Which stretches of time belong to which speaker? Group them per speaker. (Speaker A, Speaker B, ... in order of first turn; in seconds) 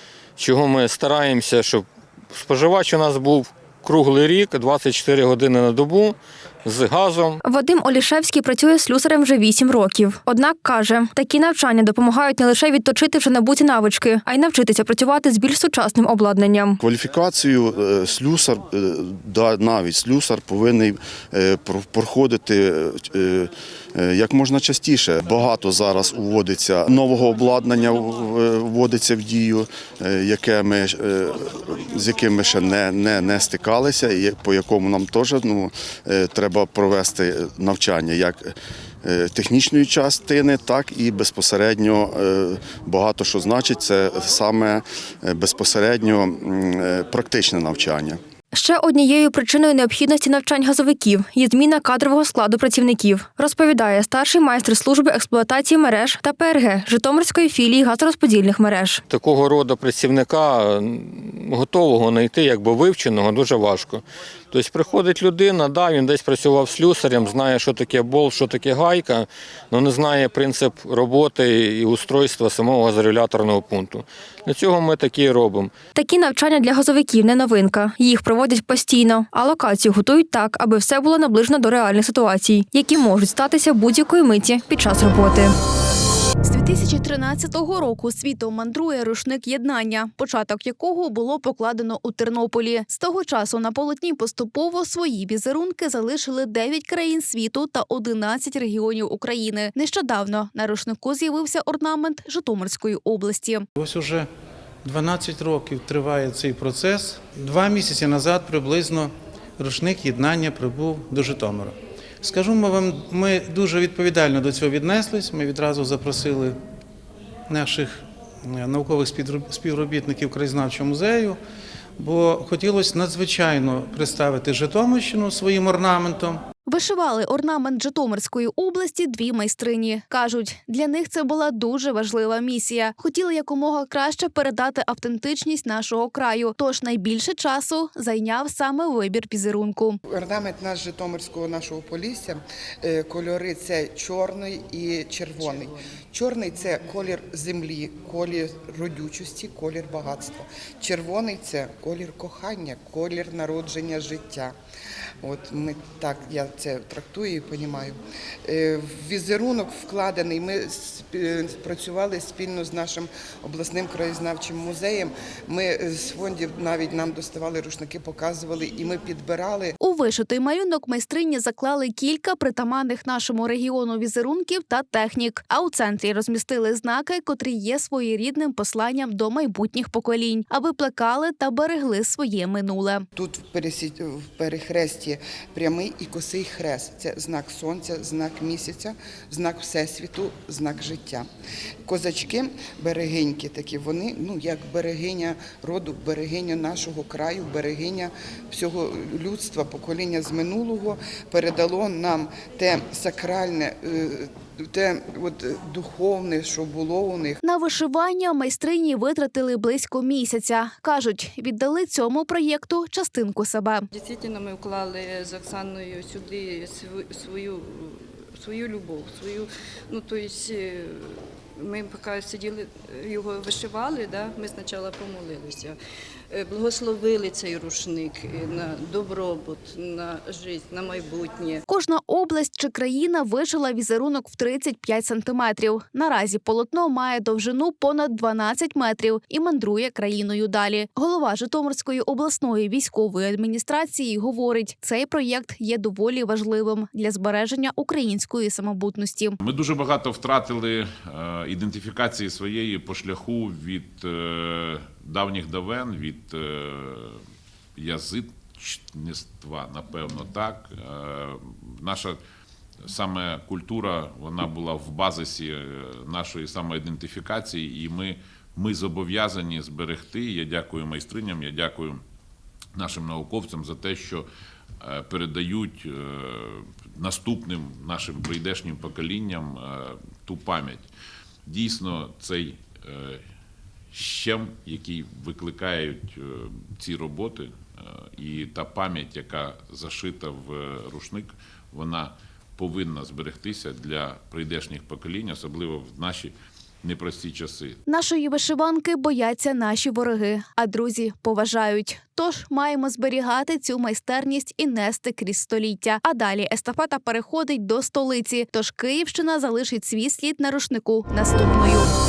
Speaker A: 0.4-7.4, 59.1-75.7
Speaker B: 7.4-16.8, 48.5-59.0, 75.9-85.5
Speaker C: 16.8-48.2
Speaker D: 86.4-103.7, 126.7-140.0, 169.8-183.0, 207.4-213.8, 231.7-249.4, 297.9-311.9
Speaker E: 103.8-104.3, 104.8-116.6, 117.5-121.4, 122.0-126.4, 140.2-141.0, 145.1-146.2, 146.8-148.0
Speaker F: 140.2-154.5, 155.2-157.9, 158.5-169.7, 183.2-191.3, 191.9-207.4
Speaker G: 213.9-217.7, 218.4-220.9, 221.6-225.7, 226.3-231.5
Speaker H: 249.4-257.2, 257.8-262.2, 262.8-272.0, 272.7-274.2, 274.8-280.9, 281.5-283.2, 283.9-297.8